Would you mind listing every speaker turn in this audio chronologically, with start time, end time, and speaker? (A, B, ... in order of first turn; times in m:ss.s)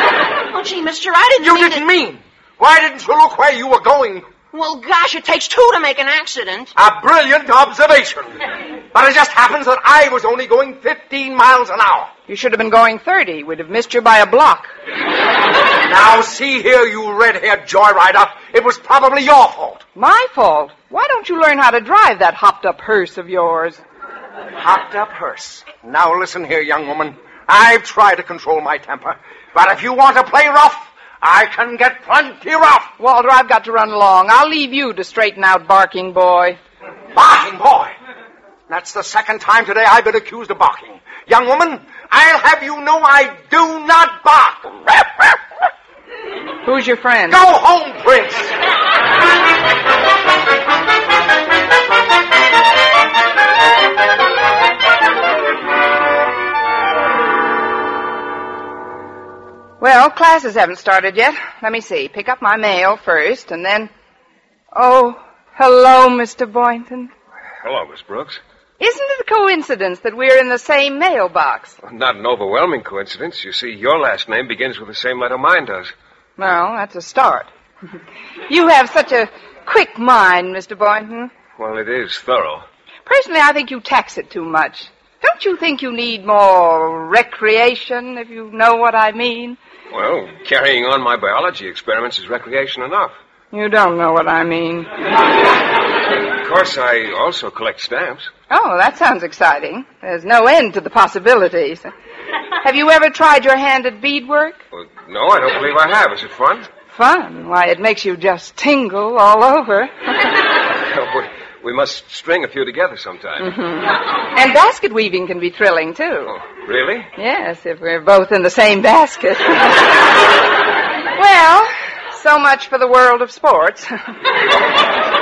0:00.5-0:01.8 A
0:01.4-0:04.3 B
0:04.5-0:06.7 A
0:06.8-0:08.4 B
0:08.9-0:12.1 B
0:12.3-0:14.7 C
0:15.8-0:19.8 B
0:20.0-0:23.8 C
0:24.6-0:32.9 B
0:33.0-0:36.6 C
0:37.1-0:37.9 B
0:38.7-0:45.4 B
0:46.6-0:47.4 C
0:47.3-0:48.6 B
0:59.8-1:03.9 C
1:04.7-1:07.1 C
1:07.6-1:08.4 D
1:08.8-1:11.8 C
1:11.8-1:15.9 D
1:16.4-1:17.5 C
1:18.5-1:21.3 C
1:21.6-1:22.6 D
1:23.1-1:29.6 C
1:29.9-1:33.2 D
1:33.5-1:34.9 C
1:36.4-1:38.3 D
1:38.5-1:41.9 C
1:42.6-1:44.6 C
1:44.7-1:46.7 D
1:46.9-1:49.9 C
1:50.8-1:53.5 D
1:53.4-1:56.3 C
1:56.3-1:57.1 D
1:57.2-1:59.9 C
2:01.2-2:04.0 C